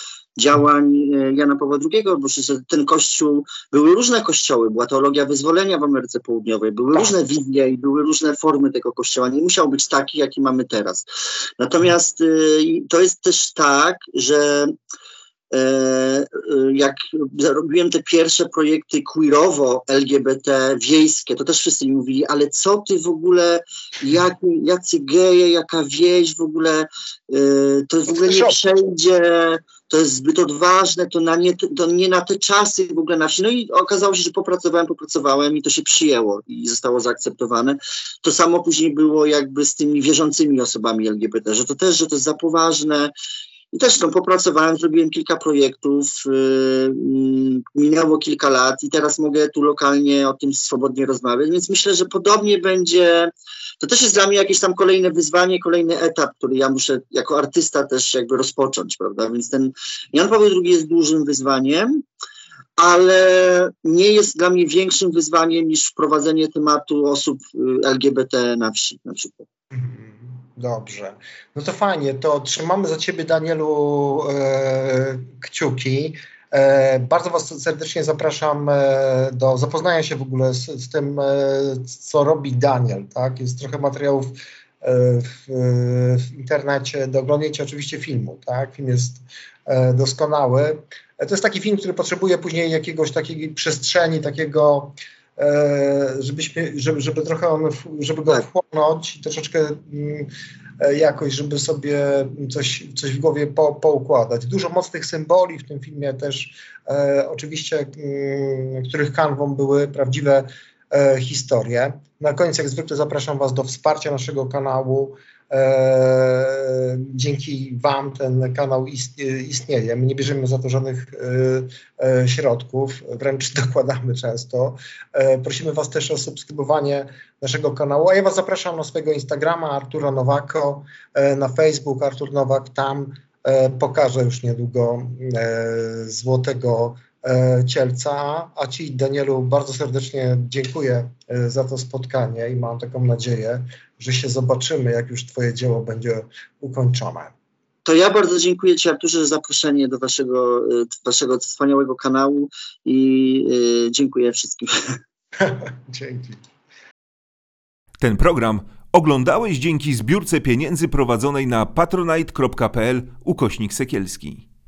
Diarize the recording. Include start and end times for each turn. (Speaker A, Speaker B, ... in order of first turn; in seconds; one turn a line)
Speaker A: 0.4-11.1
Speaker A: 11.6-14.7
Speaker A: 15.5-43.1
Speaker B: 28.1-28.6
Speaker A: 43.7-62.0
Speaker A: 62.8-69.5
Speaker B: 69.7-147.3
Speaker A: 147.8-155.0
Speaker B: 155.4-156.4
Speaker C: 158.0-164.5